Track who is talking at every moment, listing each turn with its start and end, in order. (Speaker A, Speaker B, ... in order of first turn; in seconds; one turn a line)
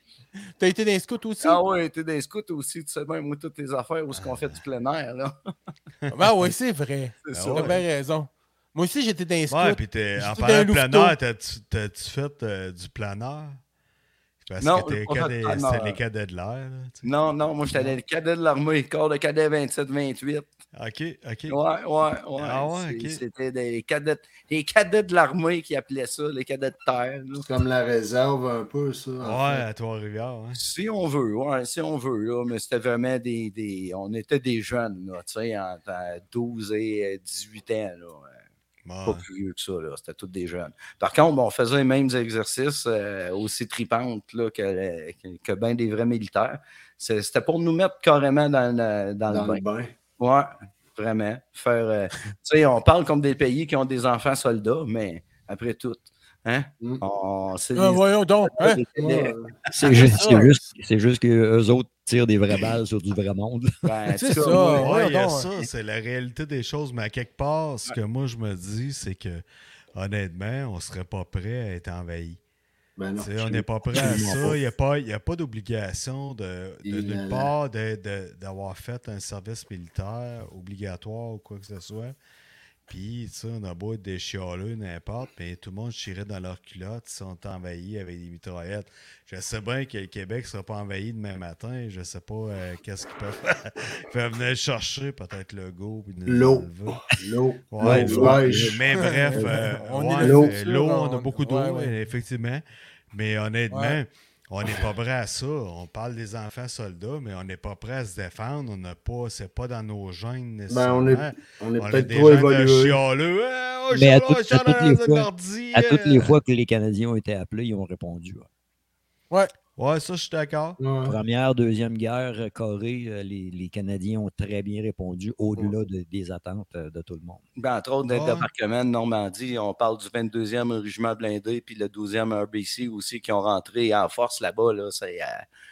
Speaker A: 0.6-1.6
Speaker B: 1.4-5.3
Speaker C: 4.1-4.6
Speaker A: 6.1-11.1
Speaker B: 7.2-7.8
Speaker C: 7.3-7.8
Speaker C: 9.5-13.6
Speaker C: 14.4-17.1
Speaker B: 14.6-16.0
Speaker B: 17.0-20.4
Speaker C: 17.7-18.0
Speaker C: 20.7-21.6
Speaker B: 21.5-27.5
Speaker C: 22.4-23.2
Speaker D: 27.4-29.6
Speaker C: 29.2-30.6
Speaker B: 30.5-38.4
Speaker C: 38.8-39.2
Speaker B: 39.0-49.6
Speaker D: 49.3-49.9
Speaker B: 50.2-60.5
Speaker A: 57.8-58.8
Speaker D: 59.0-59.5
Speaker E: 59.7-63.9
Speaker B: 63.8-64.9
Speaker A: 64.2-65.5
Speaker C: 64.4-69.4
Speaker C: 69.9-72.4
Speaker D: 73.0-74.1
Speaker C: 73.2-82.2
Speaker E: 73.9-74.6
Speaker D: 76.8-77.5
Speaker C: 82.9-97.0
Speaker D: 96.3-98.8
Speaker C: 97.7-116.3
Speaker E: 97.8-98.8
Speaker A: 98.9-101.9
Speaker D: 100.2-100.5
Speaker A: 103.7-104.0
Speaker D: 110.7-113.0
Speaker E: 113.9-118.5
Speaker C: 119.8-120.8
Speaker D: 120.8-121.2
Speaker E: 121.0-127.4
Speaker B: 127.6-135.4
Speaker C: 128.1-128.5